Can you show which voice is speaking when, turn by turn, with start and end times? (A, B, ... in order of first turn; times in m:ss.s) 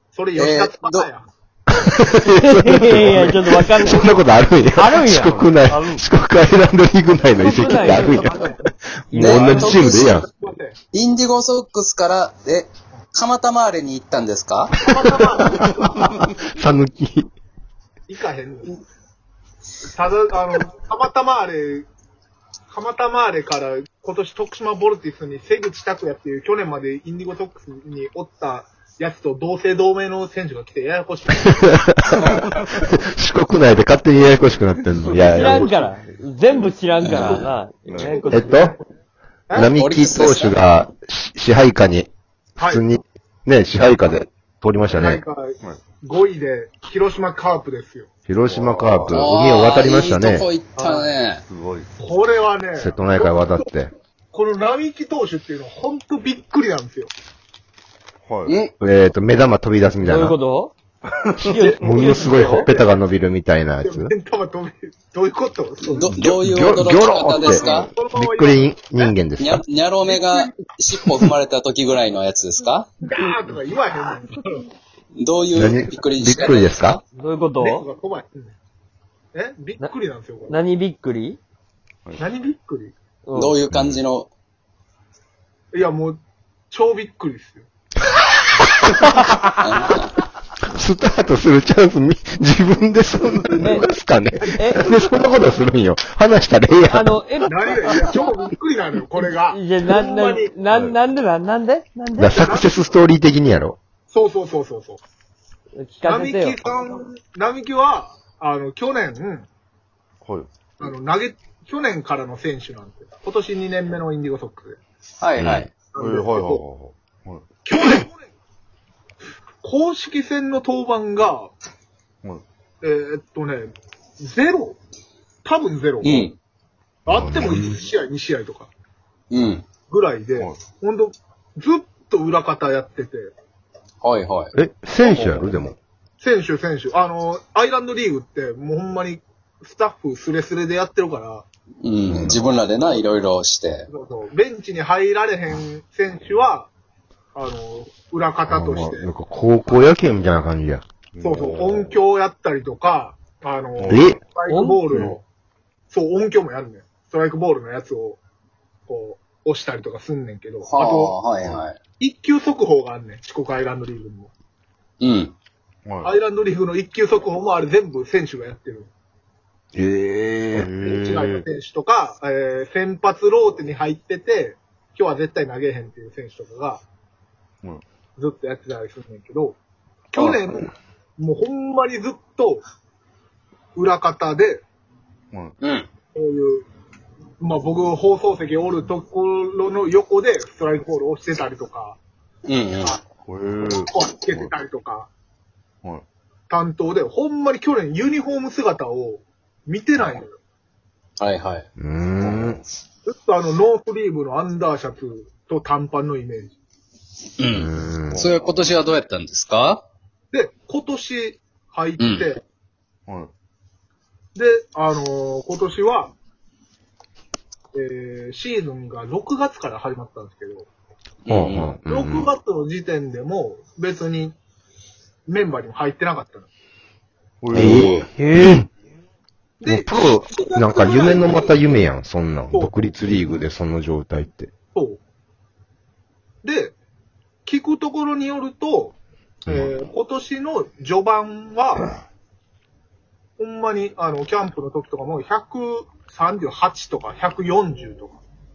0:00.1-0:01.3 A
0:00.4-0:01.1 B
0:01.7-0:10.3 C
0:02.4-0:05.5 D
0:05.7-0:06.0 E
0:07.4-0:08.5 D
0:07.8-0:08.6 A
0:09.1-0:09.8 D
0:09.2-0:10.2 B
0:09.3-0:10.8 A
0:10.9-0:14.7 B
0:14.8-0:16.1 A
0:15.0-0:17.3 C
0:18.1-0:18.7 A
0:19.9-0:21.9 A
0:22.7-0:32.4 A
0:31.9-0:35.8 C
0:35.0-0:35.9 E
0:35.3-0:38.6 D
0:36.5-0:38.2 E
0:37.0-0:37.5 B
0:38.0-0:38.8 A
0:38.3-0:38.8 C
0:39.5-0:45.2 C
0:39.6-0:40.6 B
0:42.6-0:42.8 A
0:44.9-0:48.1 A
0:48.3-0:50.5 C
0:48.5-0:49.3 E
0:48.9-0:51.4 B
0:50.8-0:51.1 A
0:51.4-0:51.9 E
0:52.0-0:53.7 A
0:52.8-0:53.9 C
0:54.3-0:57.1 A
0:58.2-0:58.6 E
0:58.5-0:58.7 B
0:58.8-1:00.4 C
1:00.0-1:00.7 D
1:01.4-1:02.7 D
1:01.6-1:03.0 A
1:01.7-1:04.1 C
1:03.8-1:06.2 A
1:05.9-1:07.9 B
1:06.2-1:09.6 C
1:07.3-1:09.1 A
1:09.4-1:12.9 B
1:10.0-1:10.7 A
1:13.0-1:14.6 A
1:15.2-1:17.0 B
1:15.5-1:17.0 C
1:17.2-1:17.8 D
1:17.6-1:18.6 A
1:19.3-1:20.6 A
1:20.5-1:21.4 D
1:22.2-1:22.9 A
1:23.3-1:23.6 D
1:23.4-1:24.3 B
1:23.7-1:24.0 C
1:25.7-1:27.7 A
1:28.6-1:29.3 C
1:29.7-1:30.1 B
1:30.7-1:37.1 C
1:33.6-1:33.9 D
1:34.5-1:35.0 D
1:36.8-1:37.9 D
1:37.5-1:40.5 A
1:39.5-1:42.4 D
1:40.7-1:41.0 E
1:42.2-1:43.8 C
1:42.3-1:42.7 A
1:44.1-1:45.0 A
1:45.8-1:46.6 D
1:46.0-1:49.5 A
1:50.8-1:54.8 A
1:55.2-1:55.7 B
1:55.4-1:55.7 C
1:55.9-1:56.6 A
1:56.0-1:57.4 E
1:57.6-1:58.3 A
1:59.6-2:01.5 A
2:02.8-2:04.8 A
2:05.4-2:06.3 A
2:06.0-2:06.4 B
2:07.1-2:08.7 A
2:07.1-2:07.6 C
2:07.4-2:07.7 B
2:09.3-2:09.6 B
2:09.9-2:13.3 A
2:14.0-2:14.6 B
2:14.6-2:15.8 C
2:15.0-2:15.6 A
2:16.2-2:21.5 A
2:21.8-2:23.9 B
2:22.1-2:22.4 C
2:23.9-2:26.7 A
2:27.3-2:29.1 A
2:28.5-2:30.8 C
2:31.1-2:32.0 E
2:31.2-2:35.2 A
2:33.8-2:34.1 E
2:33.9-2:34.2 C
2:34.5-2:34.9 D
2:34.9-2:35.2 B
2:35.9-2:38.2 A
2:38.9-2:41.2 A
2:40.7-2:41.8 B
2:42.0-2:44.3 A
2:45.0-2:45.3 B
2:45.8-2:46.1 E
2:46.0-2:48.9 A
2:49.8-2:51.4 C
2:50.6-2:56.8 A
2:58.2-2:59.6 A
3:00.1-3:02.6 A
3:03.8-3:04.6 A
3:05.6-3:05.9 B
3:06.2-3:06.7 A
3:07.4-3:12.0 A
3:12.5-3:13.0 B
3:13.2-3:14.5 E
3:13.6-3:15.1 A
3:16.5-3:20.4 A
3:21.2-3:21.7 B
3:21.8-3:22.6 C
3:22.2-3:22.6 B
3:23.1-3:26.5 A
3:27.4-3:29.8 B
3:27.5-3:28.2 C
3:28.1-3:28.6 E
3:30.3-3:32.4 A
3:32.0-3:32.3 B
3:34.4-3:36.1 A
3:37.7-3:40.7 A
3:41.2-3:41.7 B
3:41.3-3:42.3 C
3:41.8-3:44.4 A
3:45.3-3:46.5 A
3:47.4-3:48.1 E
3:47.5-3:48.6 C
3:47.6-3:48.1 B
3:48.1-3:48.7 D
3:49.6-3:51.9 A
3:49.7-3:54.5 C
3:54.7-3:55.0 A
3:56.4-3:56.8 A
3:57.4-4:01.9 A
3:59.5-3:59.7 C
4:03.4-4:08.2 A